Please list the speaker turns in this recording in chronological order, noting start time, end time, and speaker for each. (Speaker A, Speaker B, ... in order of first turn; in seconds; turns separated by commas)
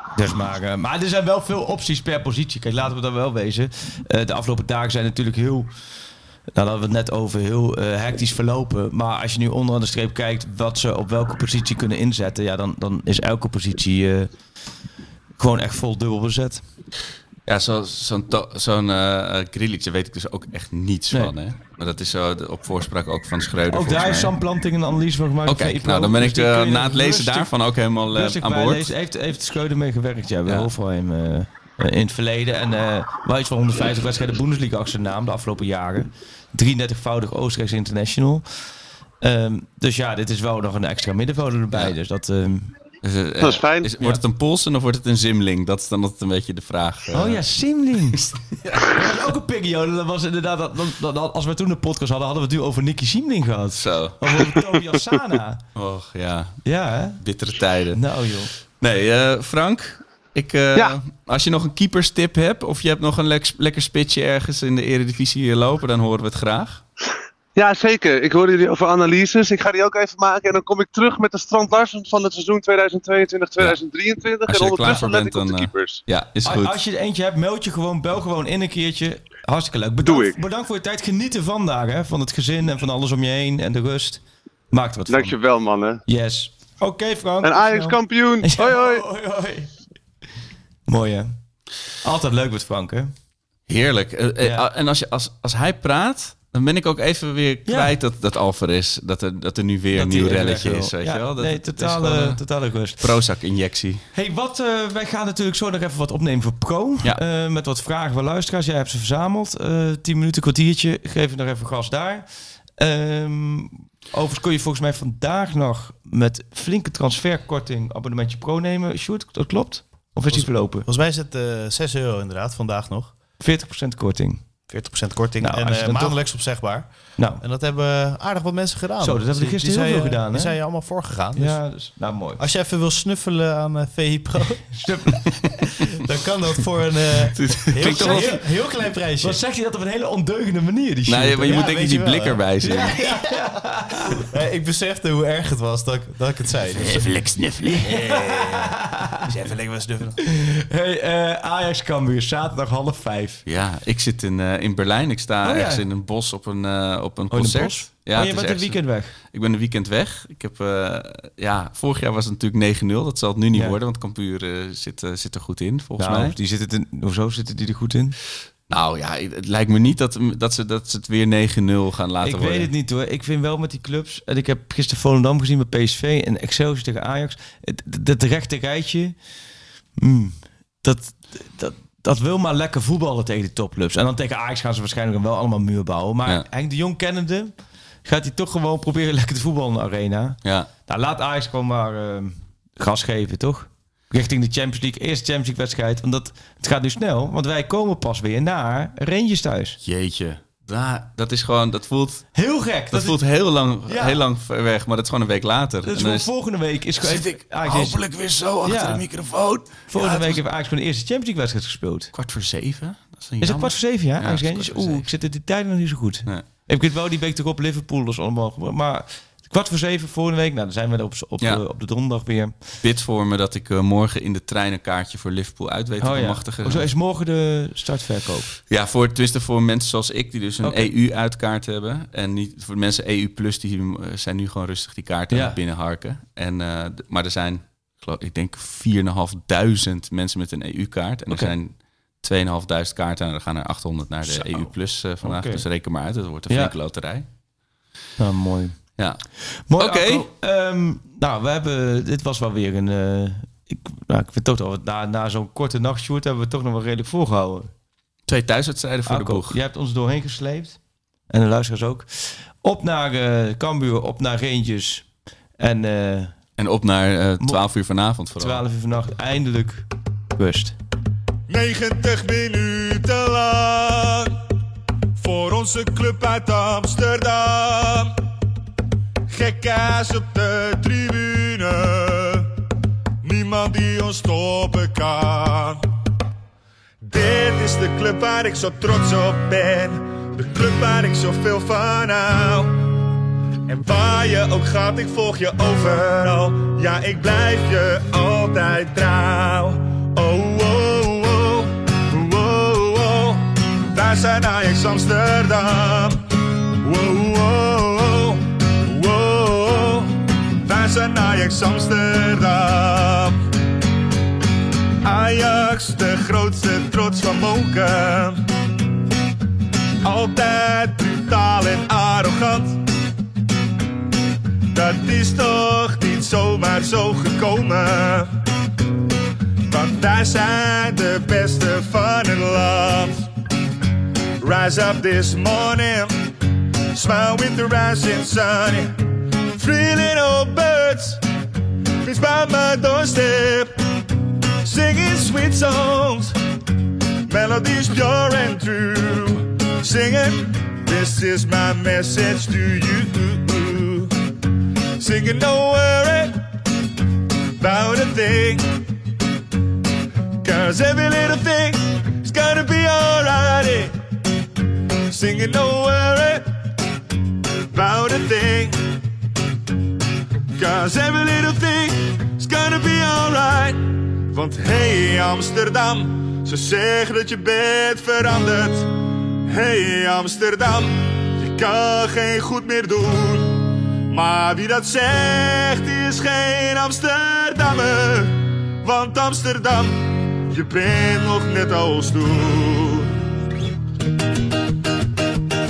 Speaker A: 0.1-5.7, Speaker A: 6.5-14.3, Speaker A: 15.4-16.6, Speaker B: 17.5-24.3, Speaker A: 23.7-27.5, Speaker B: 25.4-28.9, Speaker A: 28.1-38.4, Speaker A: 39.2-42.7, Speaker B: 43.0-47.4, Speaker C: 43.4-43.9, Speaker A: 47.1-48.2, Speaker B: 48.1-49.0, Speaker A: 48.9-55.6, Speaker B: 53.7-54.2, Speaker B: 55.7-56.6, Speaker A: 56.6-57.2, Speaker B: 57.2-58.0, Speaker A: 57.9-58.5, Speaker B: 58.7-66.8, Speaker C: 67.5-76.0, Speaker B: 74.5-76.8, Speaker A: 76.4-85.4, Speaker C: 80.0-80.4, Speaker C: 85.1-86.0, Speaker A: 86.0-89.7, Speaker C: 87.4-89.0, Speaker A: 90.9-91.3, Speaker A: 92.0-93.1, Speaker B: 93.7-102.4, Speaker A: 97.7-97.9, Speaker A: 99.9-103.1, Speaker B: 103.0-104.0, Speaker A: 104.1-112.2, Speaker A: 112.8-120.9, Speaker D: 120.3-123.1, Speaker A: 123.4-124.4, Speaker D: 124.7-131.6, Speaker A: 125.4-126.3, Speaker A: 127.2-127.4, Speaker A: 129.0-130.8, Speaker A: 131.3-132.4, Speaker D: 132.4-134.9, Speaker A: 134.7-135.7, Speaker D: 136.0-139.4, Speaker B: 137.3-138.4, Speaker A: 137.8-138.6, Speaker A: 139.2-144.2, Speaker B: 141.1-142.9, Speaker D: 141.5-142.4, Speaker D: 144.3-150.2, Speaker B: 146.7-148.1, Speaker A: 147.6-149.1, Speaker A: 150.2-153.4, Speaker B: 153.4-166.3, Speaker A: 155.4-155.8, Speaker A: 157.3-159.1, Speaker A: 166.0-168.2, Speaker B: 168.7-172.7, Speaker A: 172.2-179.1, Speaker A: 180.0-187.5, Speaker A: 188.0-199.8, Speaker B: 190.4-190.7, Speaker B: 199.8-202.2, Speaker A: 202.3-203.2, Speaker B: 202.9-206.3, Speaker A: 203.8-204.2, Speaker A: 205.8-208.1, Speaker B: 207.0-210.4, Speaker A: 208.6-209.1, Speaker A: 209.9-212.1, Speaker B: 212.1-215.1, Speaker A: 213.4-222.5, Speaker B: 222.8-226.9, Speaker A: 226.0-228.6, Speaker B: 228.7-247.2, Speaker A: 230.6-230.9, Speaker A: 235.3-235.6, Speaker A: 241.3-241.5, Speaker A: 244.3-245.7, Speaker A: 246.5-246.7, Speaker A: 248.2-248.8, Speaker B: 249.0-249.2, Speaker A: 249.6-257.7, Speaker B: 249.7-250.2, Speaker B: 258.3-259.6, Speaker A: 259.1-260.8, Speaker A: 261.3-265.1, Speaker A: 265.6-266.3, Speaker B: 266.6-268.6, Speaker A: 267.4-267.6, Speaker A: 268.3-270.7, Speaker E: 271.5-274.3, Speaker E: 275.2-278.1, Speaker E: 279.3-282.5, Speaker E: 283.2-285.8, Speaker E: 287.0-292.8, Speaker E: 293.7-306.2, Speaker E: 306.8-310.1, Speaker E: 310.6-313.4, Speaker E: 315.0-318.4, Speaker E: 320.0-322.8, Speaker E: 324.7-328.3, Speaker E: 329.6-333.2, Speaker E: 334.4-336.1, Speaker E: 336.9-339.0, Speaker E: 339.5-341.2, Speaker E: 342.0-343.7, Speaker E: 344.6-346.3, Speaker E: 347.3-354.1, Speaker E: 355.0-356.3, Speaker E: 357.6-358.6, Speaker E: 360.4-363.9, Speaker E: 365.1-366.4, Speaker E: 367.7-368.8, Speaker E: 370.6-378.9, Speaker E: 379.4-393.1